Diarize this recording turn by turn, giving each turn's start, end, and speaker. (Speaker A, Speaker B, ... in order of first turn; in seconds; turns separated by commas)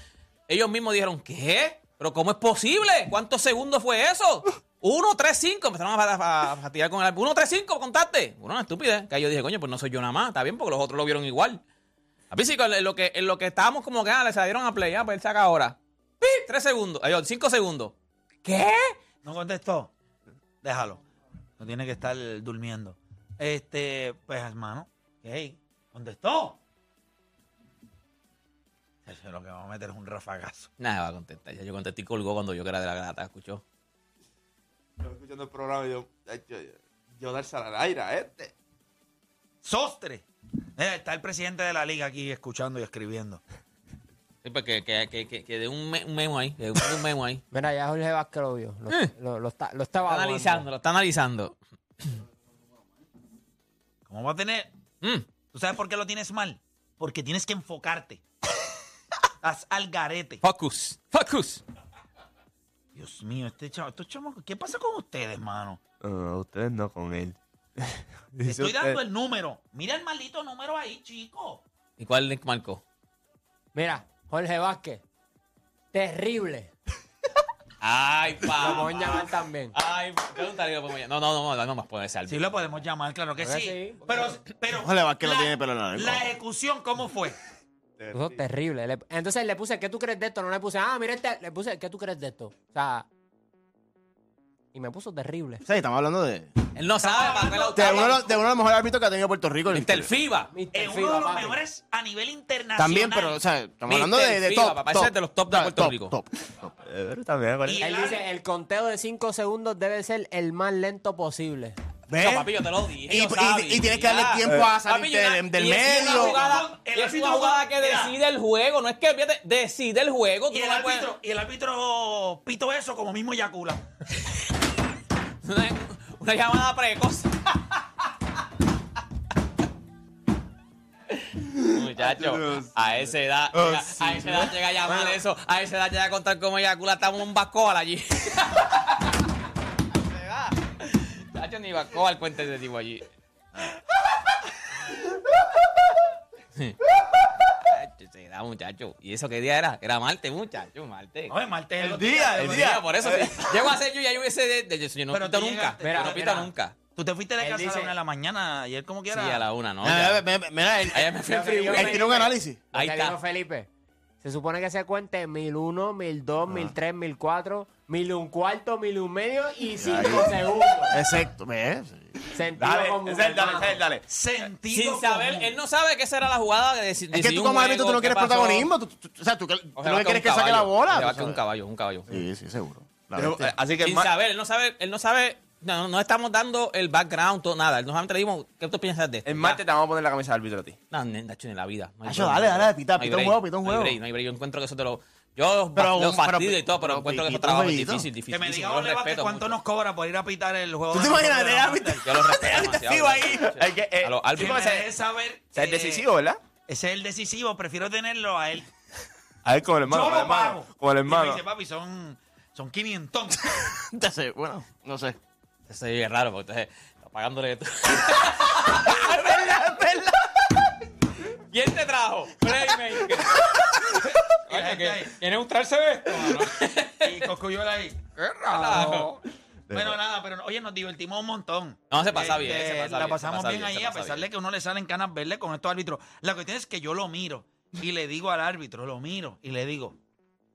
Speaker A: 0.5-11.6, Speaker A: 12.3-17.9, Speaker B: 18.4-18.9, Speaker C: 19.2-19.9, Speaker C: 20.6-21.0, Speaker C: 21.6-26.6, Speaker C: 29.1-30.7, Speaker A: 30.8-33.6, Speaker D: 35.0-38.5, Speaker C: 39.6-43.4, Speaker A: 44.4-47.4, Speaker B: 47.5-50.7, Speaker A: 50.0-52.2, Speaker C: 54.1-54.7, Speaker A: 55.0-55.3, Speaker C: 55.5-58.2, Speaker C: 59.4-60.4, Speaker A: 60.4-61.6, Speaker C: 62.9-65.8, Speaker D: 66.0-69.0, Speaker C: 68.4-71.6, Speaker A: 72.0-72.8, Speaker B: 73.7-75.0, Speaker B: 75.9-76.7, Speaker A: 77.8-82.5, Speaker B: 78.6-79.7, Speaker C: 78.7-79.1, Speaker C: 82.3-87.4, Speaker B: 83.4-84.3, Speaker E: 84.7-86.3, Speaker D: 88.0-88.4, Speaker B: 88.1-93.1, Speaker B: 94.7-95.6, Speaker E: 95.6-96.5, Speaker A: 96.7-98.2, Speaker C: 97.0-98.3, Speaker E: 97.7-100.1, Speaker A: 99.7-100.5, Speaker B: 100.5-101.6, Speaker C: 100.7-103.4, Speaker E: 102.8-106.7, Speaker A: 103.9-106.1, Speaker D: 106.8-107.8, Speaker C: 107.6-108.2, Speaker B: 107.8-111.8, Speaker E: 112.1-112.5, Speaker A: 112.2-121.1, Speaker E: 113.1-116.4, Speaker C: 115.9-118.1, Speaker C: 120.5-123.8, Speaker A: 125.4-127.8, Speaker D: 131.6-132.7, Speaker A: 131.7-139.1, Speaker D: 133.6-134.5, Speaker A: 140.1-143.1, Speaker A: 147.6-151.3, Speaker C: 151.3-152.7, Speaker D: 151.8-153.5, Speaker A: 152.4-156.7, Speaker C: 155.1-159.4, Speaker B: 155.8-156.5, Speaker B: 157.4-157.9, Speaker A: 159.1-160.2, Speaker E: 159.8-161.1, Speaker A: 160.9-163.2, Speaker B: 161.3-163.7, Speaker E: 161.7-162.6, Speaker B: 164.2-171.0, Speaker E: 169.8-172.1, Speaker B: 172.3-173.8, Speaker D: 172.6-174.1, Speaker C: 174.1-175.5, Speaker A: 174.7-178.7, Speaker E: 177.1-181.4, Speaker A: 179.8-182.1, Speaker E: 182.1-183.5, Speaker D: 183.1-184.1, Speaker A: 183.8-189.6, Speaker D: 189.2-190.8, Speaker A: 190.9-199.6, Speaker E: 192.0-194.0, Speaker E: 195.7-198.1, Speaker C: 198.3-202.0, Speaker E: 200.9-203.5, Speaker A: 202.0-204.8, Speaker D: 203.4-204.9, Speaker C: 204.4-206.1, Speaker D: 205.5-206.4, Speaker C: 206.7-208.7, Speaker D: 209.4-211.4, Speaker C: 209.8-213.7, Speaker E: 213.9-215.2, Speaker A: 215.7-219.7, Speaker E: 218.7-220.3, Speaker A: 221.5-227.3, Speaker C: 224.5-225.2, Speaker C: 225.9-226.5, Speaker C: 227.0-229.2, Speaker A: 228.5-229.1, Speaker D: 229.7-230.0, Speaker C: 229.7-239.9, Speaker A: 231.9-234.3